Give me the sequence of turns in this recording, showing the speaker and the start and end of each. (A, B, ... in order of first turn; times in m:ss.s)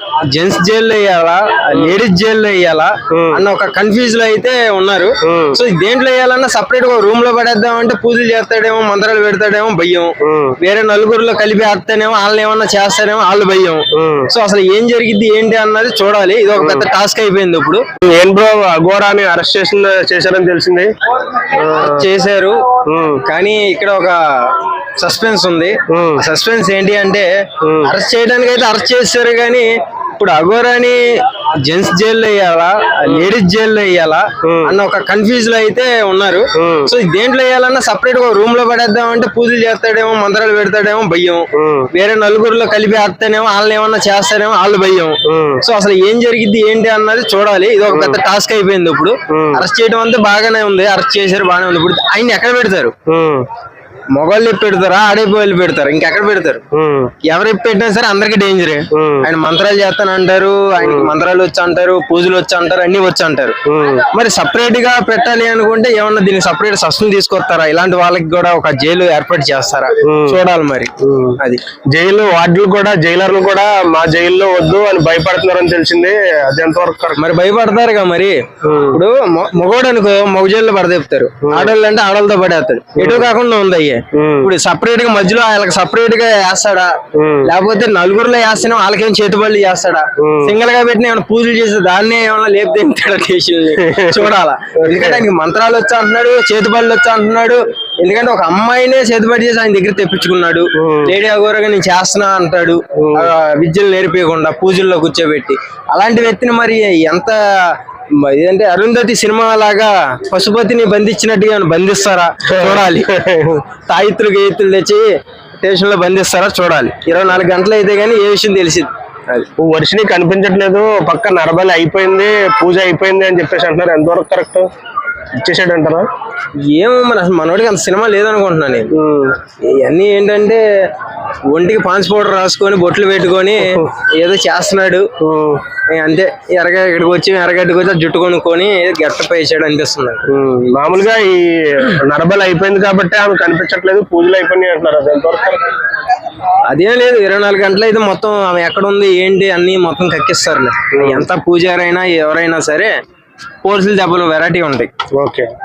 0:00.3-0:17.8 A
0:01.7-0:02.0 B
0:03.1-0:03.4 B
0:05.2-0:05.6 B
0:10.2-0:10.6 B
0:13.9-0:14.3 B
0:16.6-0:16.9 B
0:18.0-0:20.9 B
0:21.5-0:22.1 B
0:21.7-0:22.6 A
0:22.9-0:23.2 B
0:23.2-0:27.3 A
0:25.9-0:26.2 B
0:27.6-0:27.9 B
0:27.8-0:31.0 A
0:31.6-0:53.0 A
0:34.4-0:34.7 B
0:36.6-0:36.9 B
0:41.6-0:41.9 B
0:45.2-0:45.6 B
0:47.9-0:48.2 B
0:49.3-0:49.6 B
0:53.1-0:53.5 B
0:54.2-0:56.6 A
0:56.7-0:57.1 B
0:57.3-1:03.6 A
0:58.9-0:59.3 B
1:00.8-1:01.1 B
1:03.6-1:04.0 B
1:04.1-1:11.6 A
1:10.0-1:10.4 B
1:11.0-1:11.4 B
1:11.9-1:17.2 B
1:17.2-1:18.4 A
1:18.6-1:19.0 B
1:18.9-1:53.1 A
1:21.4-1:21.7 B
1:23.0-1:23.3 B
1:24.1-1:24.5 B
1:27.2-1:27.5 B
1:30.2-1:30.6 B
1:33.8-1:35.2 B
1:40.8-1:41.1 B
1:43.0-1:43.3 B
1:52.6-1:53.6 B
1:53.9-1:55.1 A
1:55.6-1:59.5 A
1:59.6-2:04.7 B
2:05.4-2:06.1 B
2:06.6-2:08.9 A
2:08.9-2:09.4 B
2:09.6-2:10.6 A
2:11.5-2:15.1 A
2:13.6-2:13.9 B
2:15.2-2:15.6 B
2:15.9-2:20.2 A
2:20.3-2:25.6 B
2:26.6-2:32.9 A
2:30.9-2:31.3 B
2:33.6-2:34.9 A
2:35.1-2:35.5 B